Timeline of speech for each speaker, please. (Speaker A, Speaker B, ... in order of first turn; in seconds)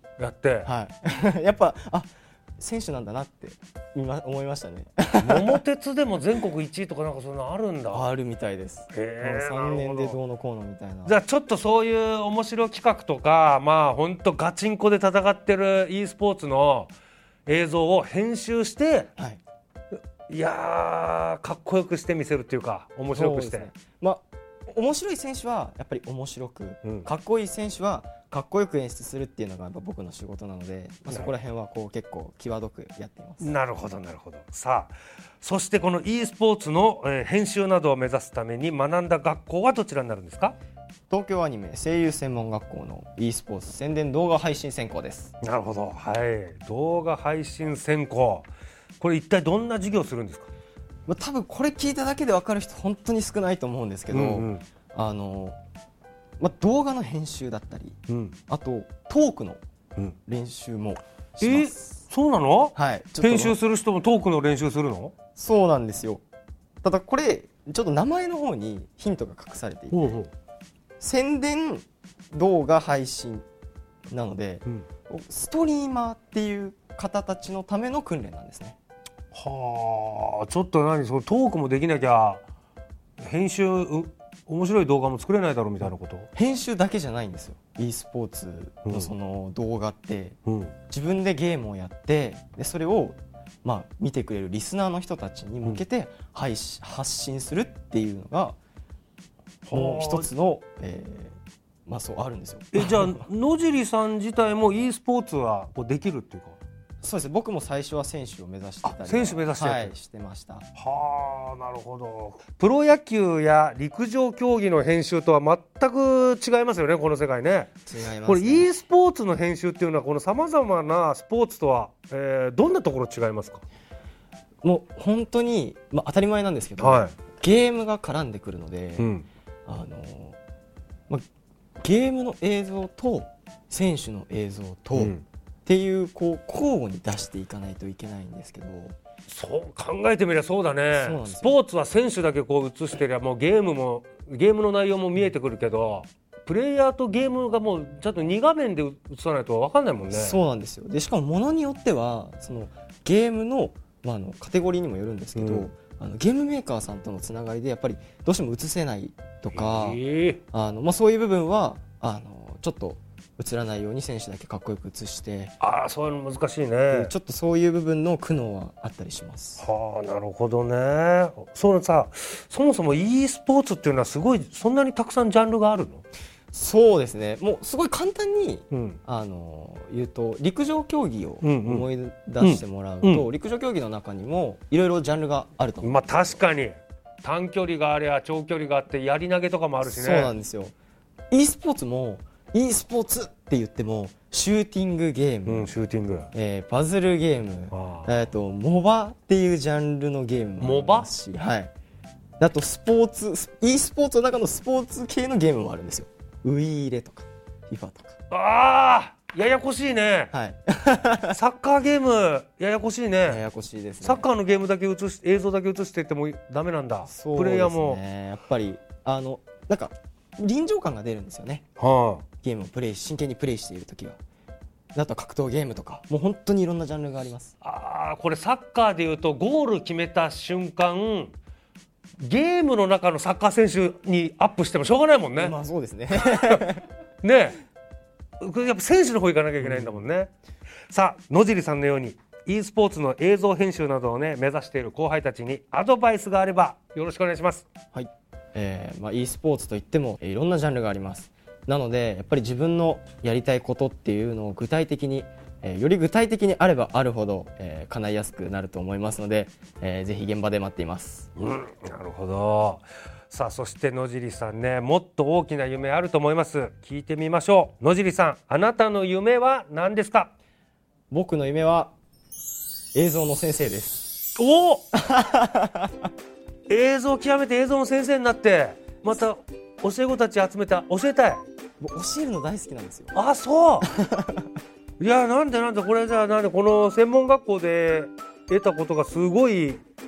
Speaker A: 0.2-0.7, 5.2-8.1, 8.9-10.2, 11.1-16.9, 17.5-19.1, 19.9-23.7, 33.4-40.6, 45.4-50.5, 54.1-54.6, 58.1-58.4, 61.4-65.1, 69.9-70.3, 79.3-82.5, 83.2-86.3, 88.9-89.1, 90.5-90.7, 99.7-100.3, 102.7-106.6, 108.8-110.0, 110.8-117.7, 118.3-123.6, 126.8-127.1, 129.0-129.3, 135.0-135.2, 139.3-150.4, 155.4-155.7, 159.5-160.4, 165.6-167.1, 169.6-176.0, 178.7-179.0, 181.4-181.9, 182.4-183.3, 185.8-190.3, 195.5-196.3, 197.7-198.2, 200.6-201.1, 208.3-210.3, 211.3-213.4, 214.0-218.0, 221.8-222.2, 227.6-231.4, 232.2-235.5, 236.3-236.7, 237.2-237.6, 238.4-240.3, 240.9-247.7, 261.4-270.3, 274.4-274.9, 276.7-281.4, 283.1-283.9, 285.0-289.8
Speaker B: 0.6-5.6, 7.9-11.2, 19.2-19.4, 23.1-33.5, 41.1-45.3, 51.1-55.6, 56.4-59.6, 60.3-62.0, 62.8-63.6, 65.4-66.2, 66.8-70.1, 71.0-73.5, 74.1-78.8, 86.3-90.4, 90.9-98.6, 99.7-103.2, 107.0-110.7, 117.9-118.7, 124.6-129.1, 129.7-130.4, 131.8-135.2, 135.7-138.9, 140.9-141.6, 150.1-160.0, 160.5-165.6, 166.9-169.6, 176.5-186.4, 189.8-190.8, 191.3-195.7, 196.3-201.7, 202.4-208.2, 210.3-211.4, 213.2-214.3, 217.1-221.6, 222.4-224.2, 224.9-227.5, 235.4-236.9, 239.6-240.0, 247.9-261.3, 271.1-271.9, 272.9-274.1, 274.9-276.1, 281.8-283.1, 283.8-284.5